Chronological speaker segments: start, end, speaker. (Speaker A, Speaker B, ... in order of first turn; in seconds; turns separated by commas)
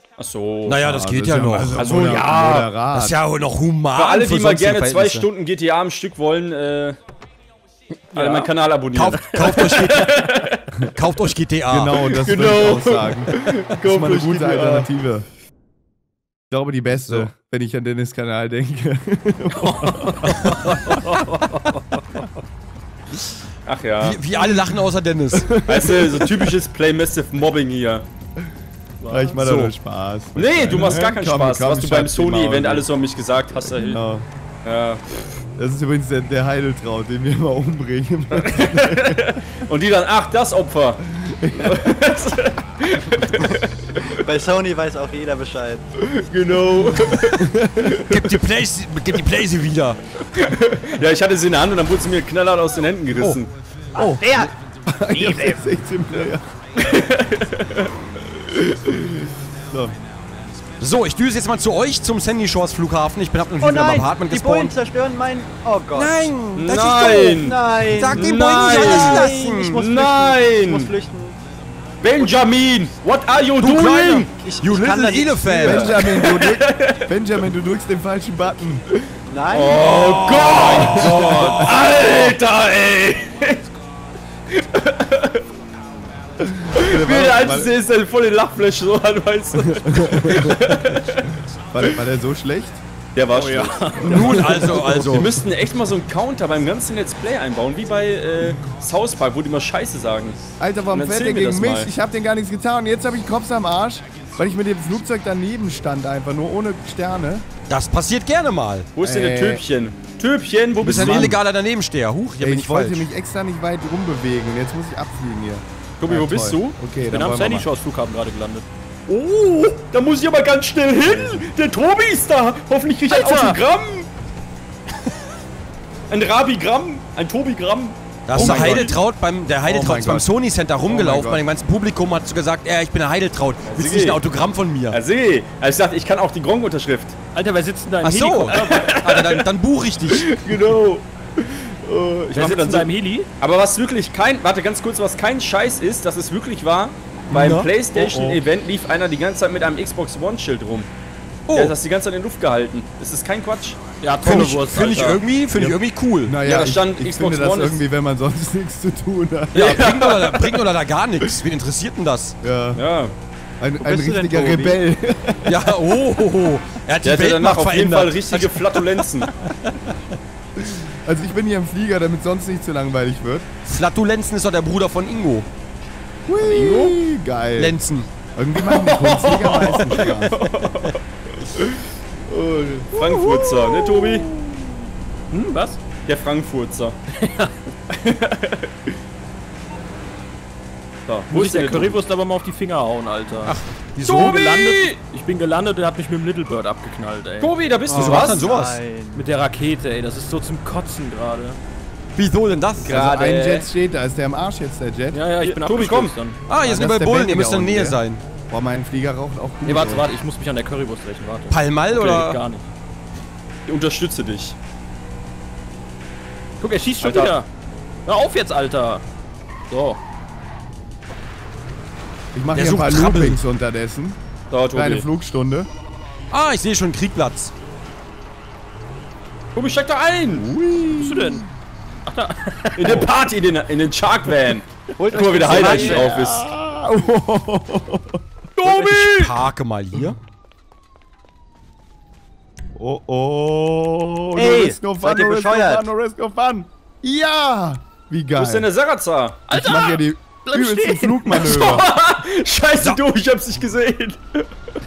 Speaker A: 0.2-0.8, Speaker B: 0.7-2.1, Speaker C: 0.8-3.2, Speaker A: 1.8-2.7, Speaker B: 2.9-5.2, Speaker A: 4.0-7.0, Speaker A: 8.1-10.7, Speaker D: 8.1-8.5, Speaker B: 8.9-10.2, Speaker B: 10.9-12.0, Speaker C: 11.7-15.2, Speaker A: 12.0-14.9, Speaker C: 16.5-21.0, Speaker D: 19.6-22.3, Speaker A: 23.6-24.2, Speaker B: 24.0-25.5, Speaker C: 25.3-26.5, Speaker A: 25.6-28.1, Speaker D: 29.0-29.4, Speaker C: 29.1-32.9, Speaker B: 29.4-29.7, Speaker A: 30.3-34.0, Speaker C: 33.6-34.2, Speaker A: 34.6-35.2, Speaker C: 35.6-39.4, Speaker A: 38.4-41.0, Speaker C: 41.1-42.0, Speaker A: 41.6-43.6, Speaker E: 44.0-45.9, Speaker A: 46.0-47.5, Speaker C: 47.3-48.1, Speaker B: 48.0-50.0, Speaker A: 50.3-53.5, Speaker B: 53.1-53.4, Speaker C: 53.9-56.5, Speaker E: 53.9-54.5, Speaker E: 55.1-55.6, Speaker A: 56.8-57.9, Speaker C: 58.5-60.0, Speaker B: 60.8-64.7, Speaker E: 63.6-66.3, Speaker B: 65.9-67.4, Speaker A: 66.5-70.9, Speaker E: 67.2-71.4, Speaker B: 67.9-69.8, Speaker A: 72.0-74.3, Speaker B: 73.6-76.0, Speaker E: 74.4-76.0, Speaker C: 75.6-78.8, Speaker A: 75.7-77.1, Speaker E: 79.3-80.7, Speaker A: 79.5-83.7, Speaker B: 79.8-81.7, Speaker C: 80.8-81.9, Speaker A: 84.5-85.4, Speaker C: 86.4-87.7, Speaker A: 86.7-91.3, Speaker C: 89.5-91.2, Speaker C: 91.7-92.8, Speaker A: 93.2-100.4, Speaker D: 93.3-94.8, Speaker B: 94.0-95.3, Speaker C: 94.2-94.7, Speaker C: 100.6-107.5, Speaker A: 100.9-101.9, Speaker B: 107.7-108.9, Speaker A: 109.0-111.4, Speaker C: 109.0-109.6, Speaker B: 110.8-113.0, Speaker C: 110.9-111.3, Speaker C: 112.4-117.7, Speaker A: 116.0-116.8, Speaker D: 117.1-118.7, Speaker A: 119.1-124.1, Speaker C: 121.0-121.5, Speaker D: 123.1-123.6, Speaker A: 126.1-128.9, Speaker B: 128.2-135.0, Speaker C: 128.3-129.0, Speaker C: 129.6-130.3, Speaker C: 130.8-131.4, Speaker A: 133.6-134.2, Speaker A: 134.9-137.2, Speaker D: 137.3-139.3, Speaker B: 138.0-140.4, Speaker A: 138.7-139.2, Speaker C: 140.4-142.5, Speaker A: 140.4-140.8, Speaker A: 142.3-142.9, Speaker D: 142.3-143.3, Speaker A: 143.4-150.9, Speaker B: 147.3-147.7, Speaker C: 147.4-148.4, Speaker B: 151.5-151.8, Speaker A: 151.5-153.8, Speaker D: 154.0-155.2, Speaker B: 154.2-156.3, Speaker A: 154.9-155.7, Speaker C: 156.2-159.9, Speaker A: 156.4-157.8, Speaker B: 159.5-162.4, Speaker A: 159.5-160.4, Speaker C: 162.4-162.8, Speaker A: 162.7-163.1, Speaker C: 163.6-165.7, Speaker E: 163.8-164.8, Speaker B: 165.4-168.8, Speaker A: 167.0-169.3, Speaker C: 170.6-173.5, Speaker B: 173.6-175.5, Speaker C: 176.3-177.8, Speaker A: 176.4-177.0, Speaker B: 177.6-178.1, Speaker C: 178.3-180.4, Speaker A: 178.6-181.0, Speaker C: 182.3-184.6, Speaker A: 182.8-184.3, Speaker D: 185.3-185.8, Speaker A: 186.0-187.0, Speaker D: 187.1-187.5, Speaker A: 187.9-188.7, Speaker A: 191.1-192.0, Speaker D: 191.3-197.6, Speaker B: 193.4-194.3, Speaker A: 194.0-195.0, Speaker A: 197.4-198.5, Speaker E: 197.8-199.3, Speaker B: 197.9-198.8, Speaker D: 199.1-201.6, Speaker B: 202.2-202.9, Speaker C: 202.8-205.2, Speaker A: 202.8-203.7, Speaker D: 205.1-206.4, Speaker A: 205.4-206.2, Speaker B: 206.5-208.2, Speaker C: 206.6-210.1, Speaker D: 209.6-212.7, Speaker B: 211.5-212.4, Speaker A: 213.7-214.6, Speaker D: 216.6-217.5, Speaker A: 217.0-217.3, Speaker D: 218.1-219.0, Speaker D: 219.7-220.0, Speaker C: 222.3-224.2, Speaker B: 222.5-223.4, Speaker A: 224.5-225.1, Speaker C: 224.7-225.7, Speaker B: 226.3-227.5, Speaker A: 229.5-230.5, Speaker C: 230.3-231.4, Speaker D: 230.9-231.4, Speaker D: 232.1-233.1, Speaker A: 232.8-236.5, Speaker E: 235.0-236.1, Speaker D: 235.1-236.1, Speaker C: 235.8-238.2, Speaker A: 238.6-239.3, Speaker B: 238.7-240.2, Speaker C: 242.7-248.7, Speaker E: 244.3-245.9, Speaker A: 248.3-249.5, Speaker D: 249.5-251.4, Speaker C: 249.5-251.8, Speaker A: 251.3-254.5